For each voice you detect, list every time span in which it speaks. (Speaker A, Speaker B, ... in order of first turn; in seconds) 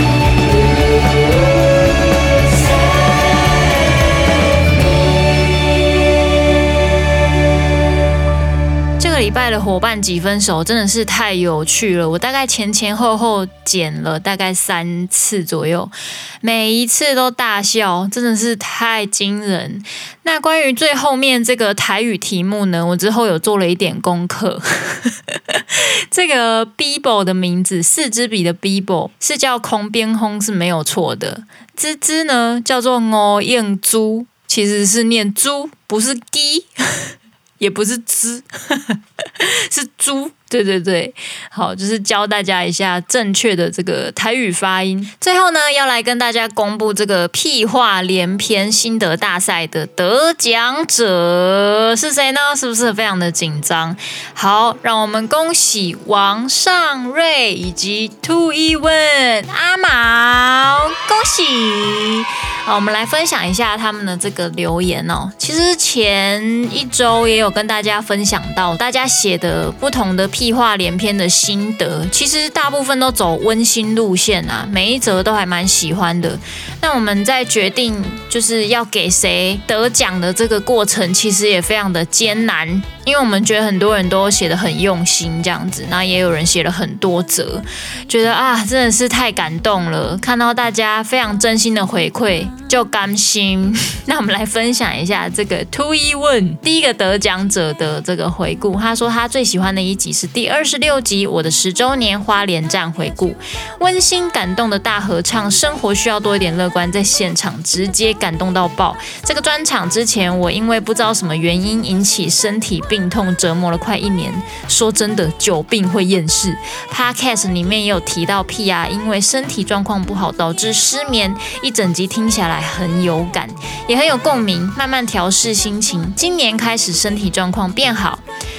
Speaker A: 9.0-128.2